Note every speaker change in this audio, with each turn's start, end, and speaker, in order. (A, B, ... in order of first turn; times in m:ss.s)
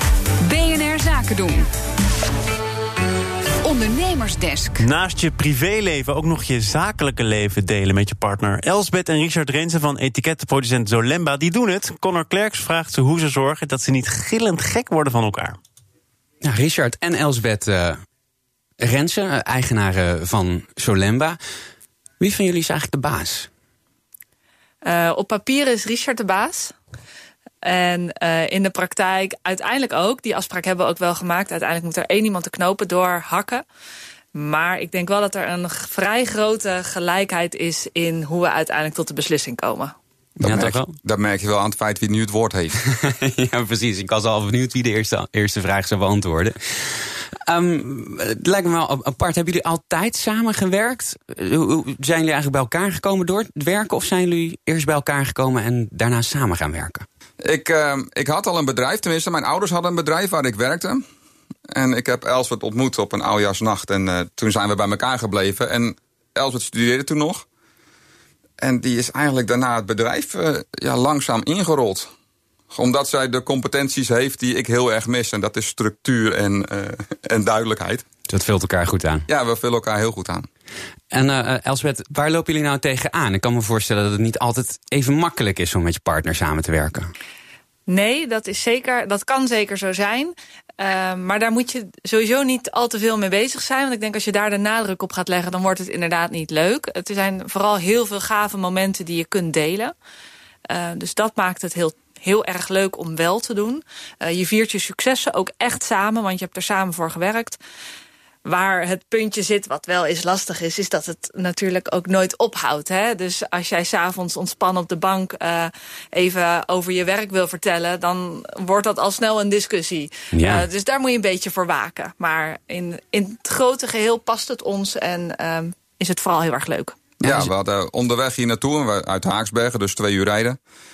0:00.4-0:01.7 A
0:03.6-0:04.9 A
0:04.8-0:15.6 B
0:16.4-0:18.0 C
0:18.8-0:21.4 C
0:22.2-0:23.5 C
0:24.8-0:26.7 D
0:27.6-0:33.6 D
0:34.3-0:39.9 D
0:40.4-0:42.8 E
0:40.4-0:40.9 C
0:42.8-0:46.9 C
0:47.5-0:57.0 C
0:57.4-1:01.0 E
1:01.7-1:07.4 E
1:08.6-1:12.1 E
1:12.7-1:18.0 E
1:18.3-1:19.3 C
1:19.3-1:20.5 E
1:21.1-1:27.1 C
1:27.9-1:39.9 D
1:40.7-1:47.6 D
1:48.4-2:07.0 D
2:00.3-2:00.6 C
2:07.2-2:10.6 E
2:07.2-2:07.5 C